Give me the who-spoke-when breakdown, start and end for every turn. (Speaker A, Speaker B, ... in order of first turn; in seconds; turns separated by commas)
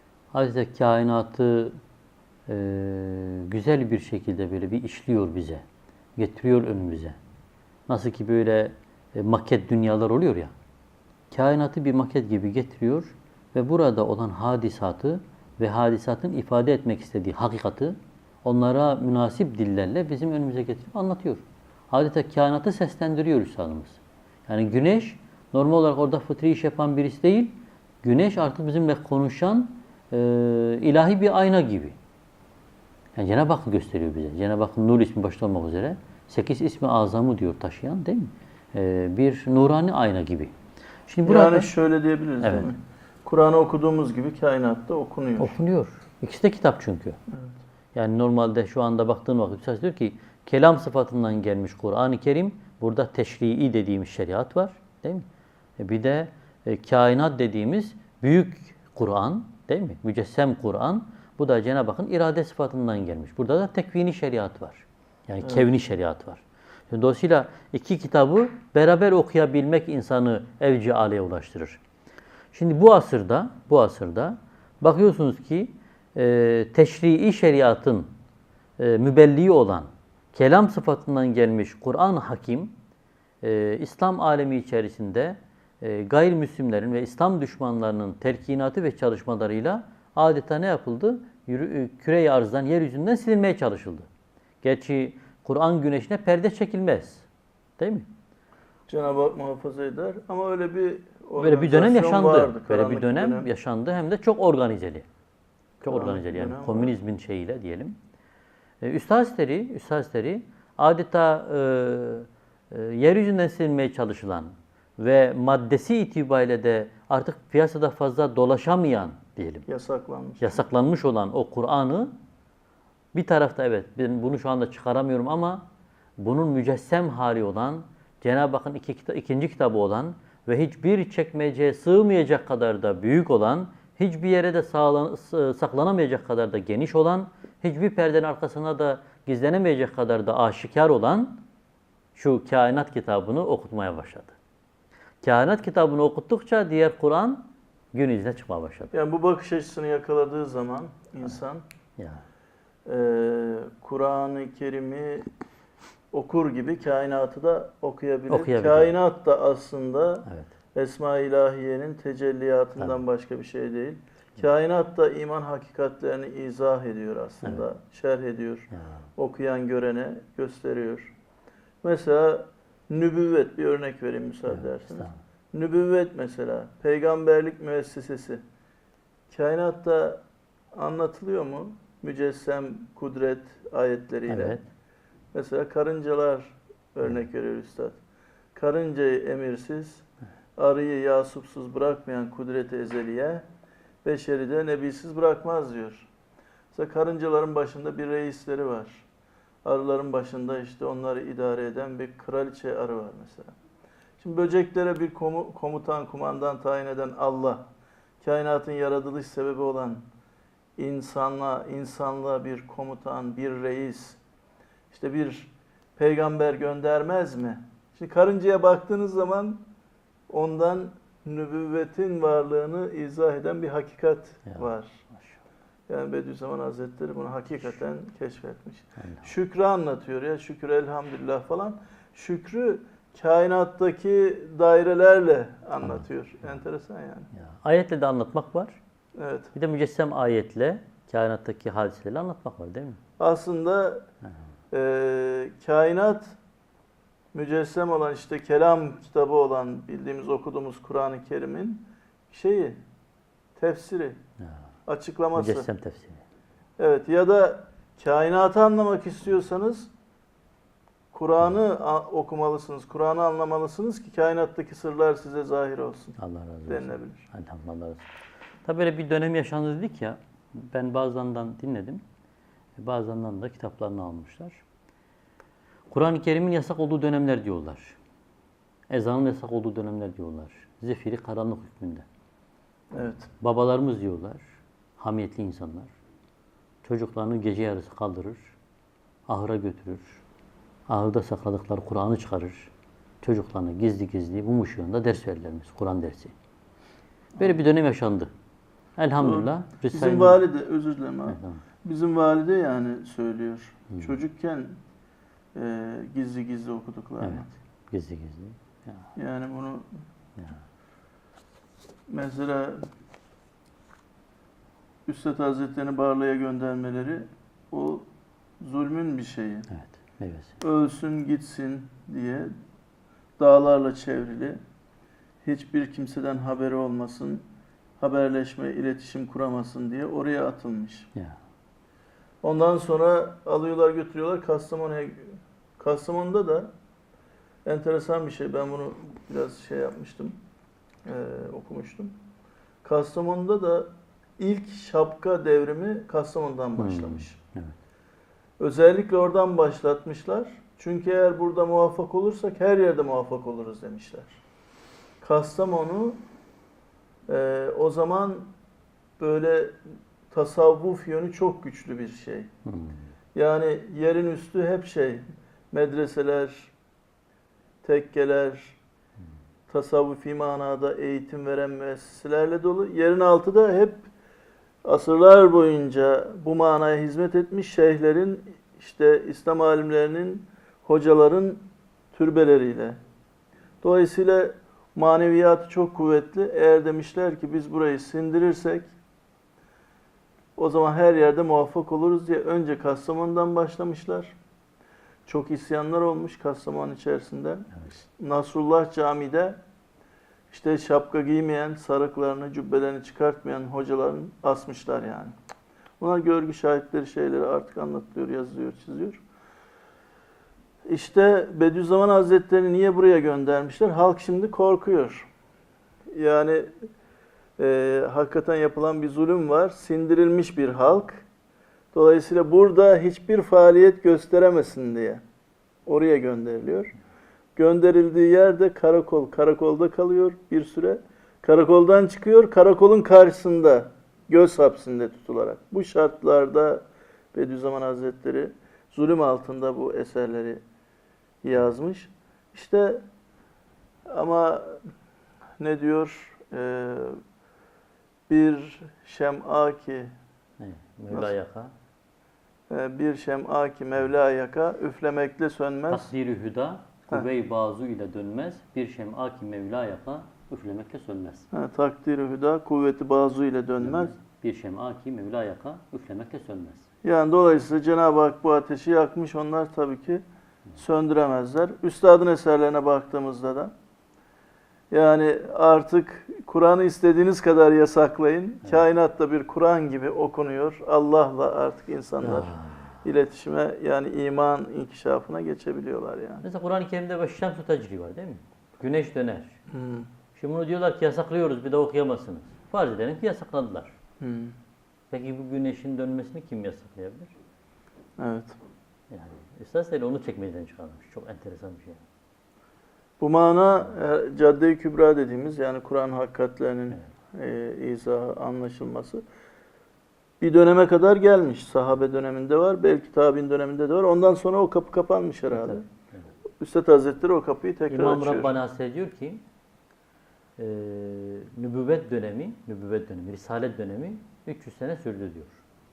Speaker A: 0.3-1.8, Speaker A: 2.5-5.6, Speaker A: 6.2-7.2, Speaker A: 7.9-10.5, Speaker A: 11.3-32.0, Speaker A: 33.2-40.5, Speaker A: 41.1-41.7, Speaker B: 41.2-45.6, Speaker A: 42.4-42.7, Speaker A: 45.4-47.2, Speaker A: 48.0-55.3, Speaker A: 55.8-71.8, Speaker A: 72.5-78.1, Speaker A: 78.8-82.8, Speaker A: 83.4-94.1, Speaker A: 94.6-97.3, Speaker A: 97.8-98.1, Speaker B: 98.9-103.5, Speaker A: 101.4-105.1, Speaker B: 105.8-106.9, Speaker A: 105.8-108.0, Speaker A: 108.8-119.7, Speaker B: 119.7-120.6, Speaker A: 120.4-122.1, Speaker A: 123.1-125.7, Speaker A: 126.2-141.4, Speaker A: 142.2-144.4, Speaker A: 145.2-148.9, Speaker B: 148.9-151.6, Speaker A: 152.0-152.2, Speaker B: 152.9-155.3, Speaker B: 156.1-171.1, Speaker A: 158.3-158.9, Speaker A: 160.3-160.5, Speaker A: 162.8-163.0, Speaker A: 168.7-169.1, Speaker B: 171.8-178.4, Speaker A: 174.5-175.2, Speaker B: 179.3-180.2, Speaker B: 180.8-184.6, Speaker A: 184.3-184.6, Speaker B: 185.3-188.0, Speaker B: 188.6-190.0, Speaker B: 190.6-193.4, Speaker B: 194.0-196.1, Speaker B: 196.7-199.1, Speaker B: 199.6-203.5, Speaker B: 204.2-207.7, Speaker B: 208.2-210.0, Speaker B: 210.8-214.2, Speaker B: 214.9-219.7, Speaker B: 220.3-225.0, Speaker A: 224.5-225.4, Speaker B: 225.9-237.3, Speaker A: 229.0-229.3, Speaker A: 235.8-236.6, Speaker A: 237.3-238.8, Speaker B: 239.2-239.5, Speaker A: 239.5-243.0, Speaker B: 243.2-244.1, Speaker B: 244.7-246.4, Speaker B: 247.3-252.8, Speaker B: 253.6-254.2, Speaker B: 254.9-255.7, Speaker A: 255.3-256.2, Speaker B: 256.8-259.9, Speaker B: 261.1-266.2, Speaker A: 266.2-268.1, Speaker B: 266.7-267.3, Speaker A: 268.6-272.0, Speaker A: 272.8-274.6, Speaker A: 275.9-278.0, Speaker A: 278.9-282.1, Speaker B: 282.9-283.3, Speaker A: 283.4-284.4, Speaker A: 285.0-285.9, Speaker A: 286.8-288.5, Speaker A: 289.3-290.2, Speaker A: 290.9-292.7, Speaker A: 293.2-296.3, Speaker A: 297.4-298.3, Speaker A: 299.0-300.4, Speaker B: 299.2-304.8, Speaker A: 301.3-301.6, Speaker B: 305.6-307.5, Speaker A: 307.2-309.1, Speaker B: 309.2-309.9, Speaker A: 310.4-310.6, Speaker B: 312.1-312.9, Speaker B: 315.1-318.1, Speaker B: 318.6-319.7, Speaker A: 319.7-320.6, Speaker B: 320.6-322.5, Speaker B: 323.4-324.6, Speaker B: 325.4-327.5, Speaker B: 328.0-331.1, Speaker B: 332.4-336.7, Speaker B: 337.6-340.4, Speaker B: 341.1-342.2, Speaker B: 342.8-347.4, Speaker A: 346.8-347.7, Speaker B: 348.6-354.4, Speaker B: 355.2-356.2, Speaker B: 357.3-358.5, Speaker B: 359.2-362.5, Speaker A: 362.7-363.0, Speaker B: 363.3-366.7, Speaker B: 367.8-368.8, Speaker B: 369.7-374.1, Speaker B: 374.9-383.0, Speaker B: 383.8-388.9, Speaker B: 390.6-394.4, Speaker B: 395.3-399.6, Speaker B: 400.5-405.3, Speaker B: 406.0-409.2, Speaker B: 410.9-415.3, Speaker B: 416.1-416.9, Speaker B: 417.6-421.2, Speaker B: 421.9-425.2, Speaker B: 425.9-426.9, Speaker B: 427.6-440.6, Speaker B: 441.4-443.0, Speaker B: 444.1-444.8, Speaker B: 445.6-447.2, Speaker B: 448.3-450.1, Speaker A: 450.6-451.7, Speaker B: 451.1-451.4, Speaker B: 452.7-456.1, Speaker A: 455.9-461.5, Speaker B: 461.5-464.1, Speaker A: 463.8-466.9, Speaker B: 467.0-470.2, Speaker B: 470.8-473.7, Speaker B: 474.9-482.5, Speaker A: 482.2-482.9, Speaker B: 483.0-486.5, Speaker A: 486.4-489.6, Speaker B: 489.7-490.1, Speaker A: 490.4-493.9, Speaker B: 494.2-494.6, Speaker A: 495.1-497.3, Speaker B: 498.2-498.6, Speaker A: 499.1-502.0, Speaker B: 503.2-509.2, Speaker B: 510.4-515.8, Speaker A: 515.5-515.8, Speaker B: 516.6-518.5, Speaker A: 517.9-519.4, Speaker A: 520.6-525.6